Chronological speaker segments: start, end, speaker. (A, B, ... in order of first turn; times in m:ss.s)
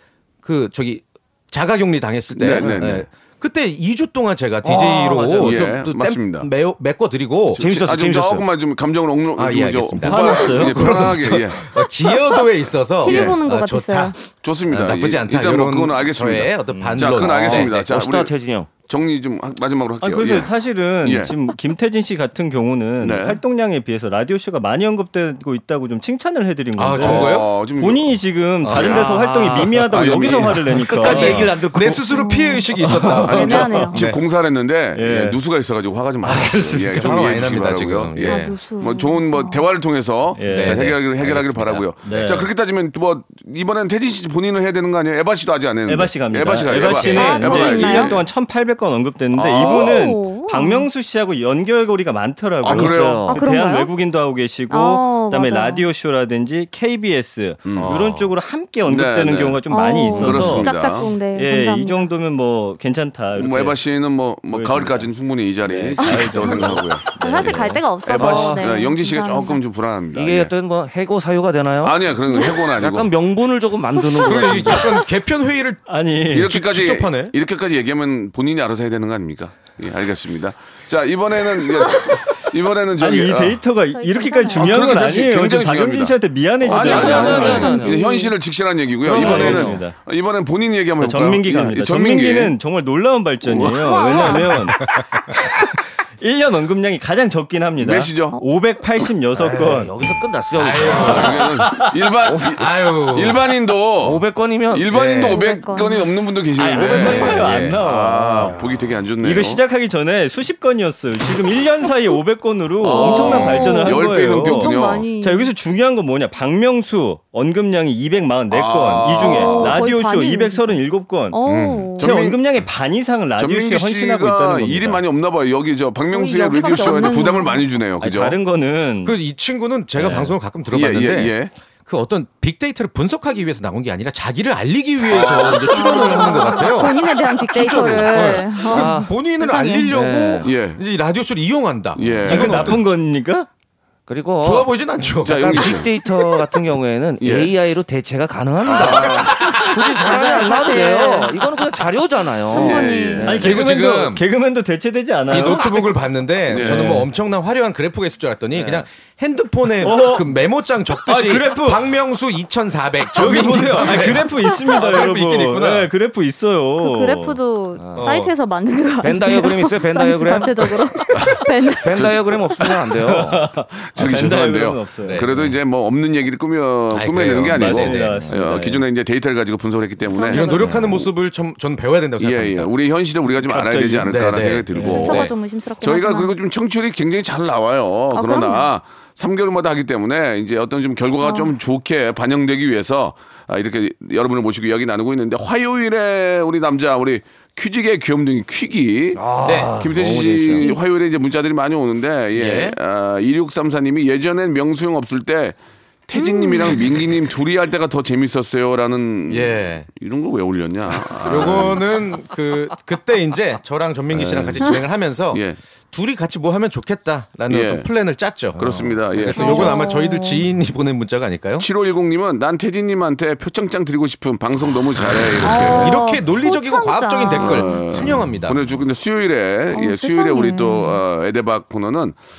0:00.4-0:07.6 A
0:02.3-0:03.1 B
0:04.6-0:05.6 C
0:05.4-0:06.5 B
0:07.6-0:11.7 B
0:07.6-0:08.5 C
0:09.3-0:14.1 A
0:10.0-0:11.1 D
0:13.0-0:14.2 E
0:13.0-0:13.4 B
0:14.4-0:20.5 B
0:14.6-0:17.7 A
0:16.8-0:18.7 C
0:20.0-0:31.6 D
0:21.0-0:21.3 B
0:23.0-0:23.4 B
0:26.8-0:27.5 A
0:27.0-0:28.1 B
0:28.6-0:29.0 A
0:28.8-0:29.1 B
0:28.8-0:29.8 C
0:29.8-0:31.2 B
0:30.8-0:32.1 C
0:31.0-0:34.2 A
0:32.1-0:34.0 E
0:32.8-0:33.9 D
0:33.2-0:48.2 B
0:34.9-0:35.4 D
0:36.2-0:38.6 A
0:38.2-0:39.6 E
0:40.4-0:42.5 D
0:40.4-0:41.8 A
0:45.8-1:00.7 D
0:47.0-0:48.2 E
0:49.3-0:50.1 B
0:49.6-0:50.9 E
0:52.6-0:53.3 B
0:52.6-0:53.4 C
0:53.2-0:53.9 E
0:54.7-0:55.8 E
0:57.6-0:58.2 B
0:57.7-0:58.3 A
0:58.8-1:01.1 B
0:59.7-1:02.1 E
1:01.3-1:03.8 D
1:03.3-1:10.5 B
1:04.5-1:05.1 D
1:05.7-1:06.7 D
1:06.0-1:09.6 E
1:07.2-1:08.7 C
1:10.1-1:14.9 C
1:11.8-1:13.1 B
1:14.1-1:15.0 E
1:14.1-1:17.4 A
1:15.9-1:16.5 D
1:16.3-1:23.6 B
1:21.8-1:22.2 E
1:23.0-1:27.8 D
1:23.9-1:25.0 E
1:24.5-1:32.5 B
1:26.7-1:28.3 E
1:26.8-1:28.0 C
1:29.0-1:29.9 D
1:29.1-1:29.8 C
1:31.0-1:39.9 D
1:33.4-1:34.4 B
1:33.8-1:34.6 E
1:37.8-1:38.4 B
1:39.3-1:41.5 C
1:40.5-1:41.5 A
1:40.8-1:49.6 B
1:42.2-1:42.5 C
1:42.5-1:43.4 A
1:44.0-1:45.2 C
1:44.9-1:45.3 A
1:45.2-1:46.1 E
1:46.6-1:48.6 D
1:46.7-1:47.8 A
1:46.8-1:47.2 C
1:49.2-2:01.4 D
1:52.8-1:55.1 B
1:53.0-1:55.5 E
1:58.5-1:59.8 B
1:59.1-2:00.8 E
2:01.3-2:02.1 E
2:01.4-2:02.0 A
2:02.0-2:05.0 D
2:02.0-2:02.6 B
2:03.4-2:08.4 B
2:06.1-2:07.7 E
2:08.0-2:09.2 D
2:09.0-2:22.8 A
2:10.0-2:10.3 D
2:10.7-2:11.5 B
2:15.0-2:16.6 B
2:15.4-2:19.9 E
2:18.7-2:19.1 C
2:19.9-2:20.5 C
2:20.4-2:20.8 B
2:21.9-2:22.8 B
2:22.2-2:23.5 D
2:24.1-2:33.4 C
2:24.4-2:26.6 A
2:25.2-2:25.9 B
2:27.2-2:27.5 B
2:28.6-2:29.7 B
2:28.7-2:29.8 A
2:30.0-2:31.4 E
2:32.5-2:33.4 E
2:32.5-2:33.4 B
2:33.2-2:35.7 D
2:33.4-2:34.2 A
2:35.3-2:45.9 A
2:36.5-2:37.0 B
2:36.6-2:37.1 D
2:38.5-2:38.8 C
2:39.8-2:41.9 D
2:43.1-2:47.4 D
2:46.8-2:52.0 E
2:47.8-2:48.1 C
2:47.9-2:48.3 A
2:49.0-2:51.0 C
2:51.8-2:53.4 C
2:52.0-2:52.3 B
2:53.1-2:55.5 D
2:53.8-3:01.1 B
2:55.0-2:55.5 A
2:56.9-2:58.3 A
2:57.4-2:58.8 D
3:00.1-3:00.8 E
3:00.3-3:02.7 A
3:02.2-3:31.9 B
3:03.4-3:05.3 D
3:03.8-3:05.3 A
3:04.9-3:06.3 E
3:08.1-3:08.7 E
3:11.2-3:11.5 E
3:19.2-3:20.7 C
3:19.4-3:19.8 A
3:20.5-3:20.8 E
3:22.3-3:22.8 A
3:26.1-3:26.9 E
3:29.3-3:29.9 A
3:31.2-3:41.7 A
3:34.1-3:34.8 B
3:35.3-3:35.6 B
3:37.5-3:37.9 B
3:38.6-3:39.9 B
3:39.3-3:40.4 E
3:41.6-3:46.0 B
3:45.4-3:47.9 E
3:45.4-3:48.7 A
3:47.4-3:52.2 B
3:49.7-3:51.0 E